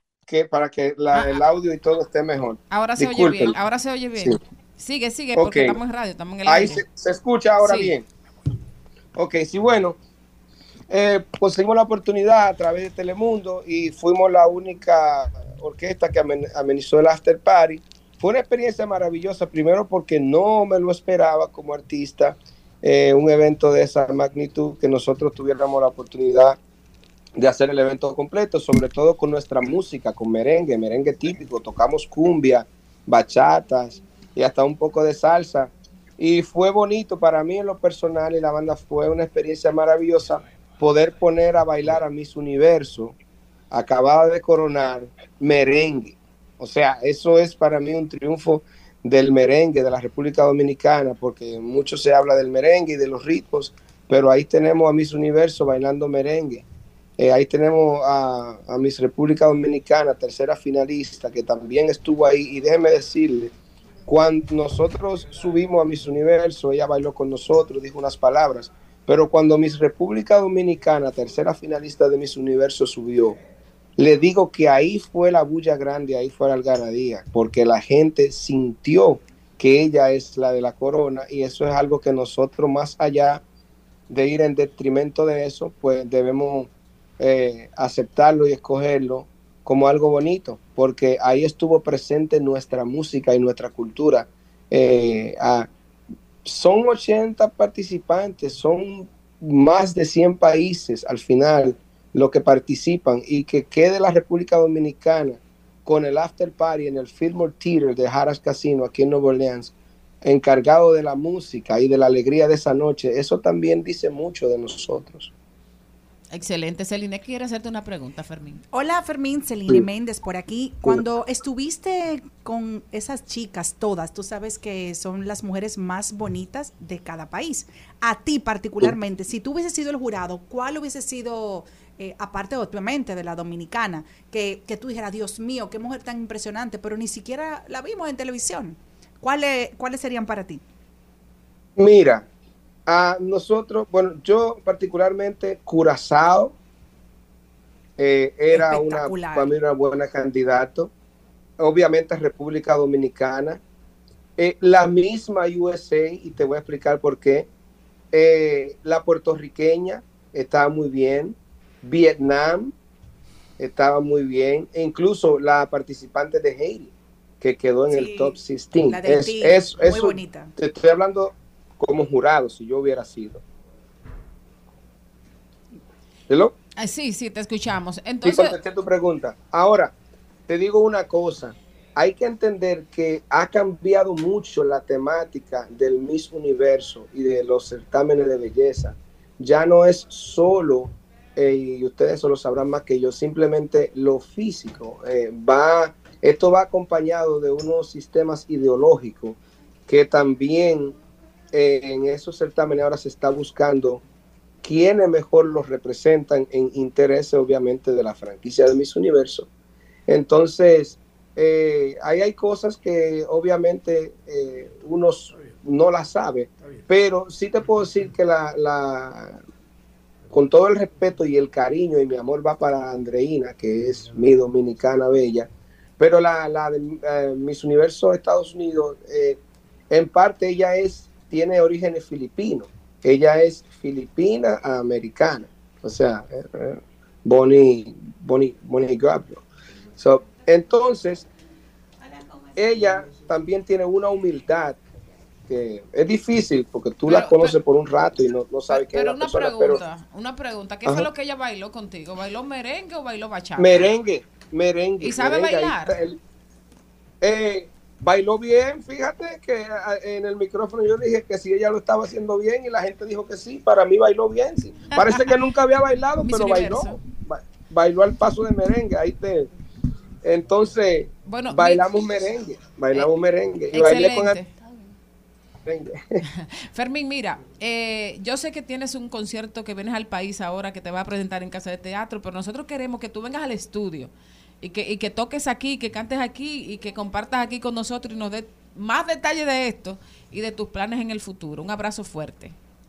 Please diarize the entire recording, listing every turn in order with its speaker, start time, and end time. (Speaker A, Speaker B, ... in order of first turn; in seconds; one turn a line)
Speaker A: 0.3-3.5
Speaker B: 2.7-6.8
Speaker A: 5.4-5.8
Speaker A: 6.5-8.1
Speaker B: 7.6-8.0
Speaker A: 9.2-10.0
Speaker A: 10.9-26.6
Speaker A: 27.4-43.2
Speaker A: 43.7-56.6
Speaker A: 57.2-63.5
Speaker A: 64.1-73.4
Speaker A: 74.0-83.4
Speaker A: 84.1-95.7
Speaker A: 96.5-115.3
Speaker B: 116.3-118.6
Speaker C: 118.7-140.6
Speaker A: 141.8-142.3
Speaker A: 142.9-146.6
Speaker A: 148.0-150.9
Speaker C: 148.5-149.6
Speaker A: 151.6-153.6
Speaker A: 154.4-157.5
Speaker A: 158.1-162.7
Speaker A: 163.6-173.4
Speaker C: 167.9-170.5
Speaker A: 176.3-176.6
Speaker B: 176.8-178.6
Speaker A: 178.2-179.9
Speaker A: 180.5-201.0
Speaker A: 201.5-204.0
Speaker A: 204.6-209.5
Speaker A: 210.1-219.4
Speaker A: 220.3-239.4
Speaker A: 240.0-241.3
Speaker A: 242.6-244.8
Speaker A: 245.5-249.8
Speaker B: 247.1-247.6
Speaker B: 248.7-253.9
Speaker A: 253.6-256.2
Speaker B: 255.0-256.0
Speaker A: 257.2-269.5
Speaker B: 264.9-265.3
Speaker B: 266.2-267.0
Speaker A: 270.2-274.4
Speaker B: 271.2-272.2
Speaker B: 273.7-274.5
Speaker A: 275.7-276.2
Speaker B: 276.4-292.6